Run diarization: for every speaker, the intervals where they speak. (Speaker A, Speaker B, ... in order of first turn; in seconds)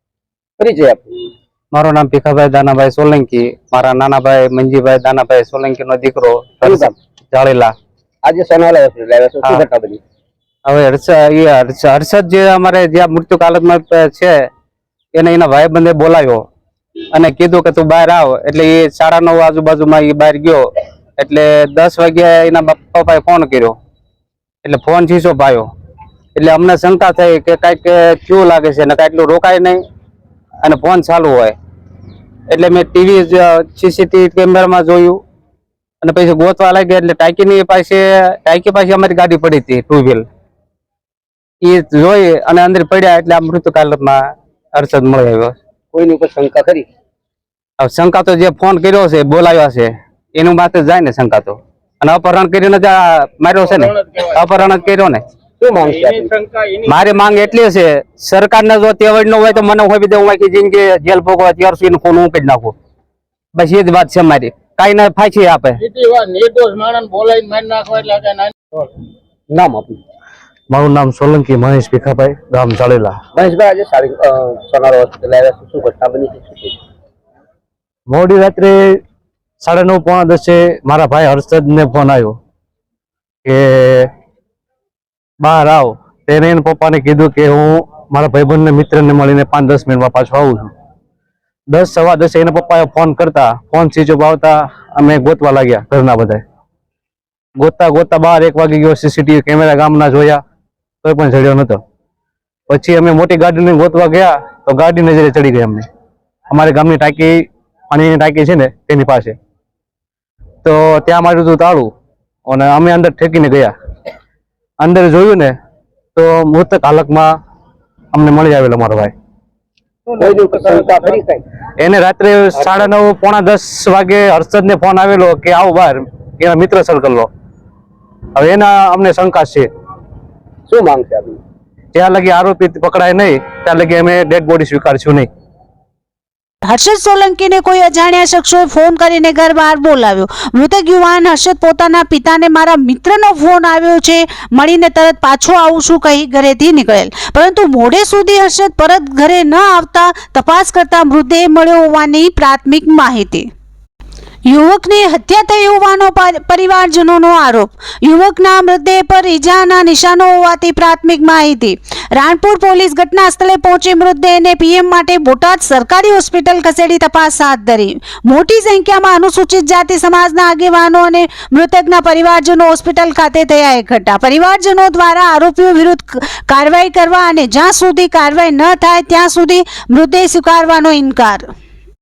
Speaker A: 0.6-1.2, 6.6-6.9, 8.2-10.0, 45.9-46.9, 55.6-56.3, 69.5-70.0, 73.3-76.8, 120.2-121.4, 130.7-131.4
Speaker B: 1.7-7.7, 10.7-14.3, 15.1-16.4, 17.1-20.6, 21.2-23.8, 24.6-25.7, 26.4-29.8, 30.6-31.5, 32.5-35.2, 36.0-40.2, 41.6-44.2, 44.7-45.5, 47.8-55.2, 56.8-62.7, 63.5-65.9
Speaker C: 65.9-68.5
Speaker D: 70.7-73.2, 78.1-79.0, 79.6-82.3, 83.4-84.1, 85.4-90.7, 91.7-96.4, 97.6-100.4, 101.0-101.8, 102.7-105.8, 106.5-109.3, 110.6-111.9, 112.5-113.7, 114.8-115.5, 116.2-117.3, 118.1-119.1, 121.8-127.3, 128.3-129.7, 131.9-135.3
Speaker E: 136.6-153.5, 154.5-181.5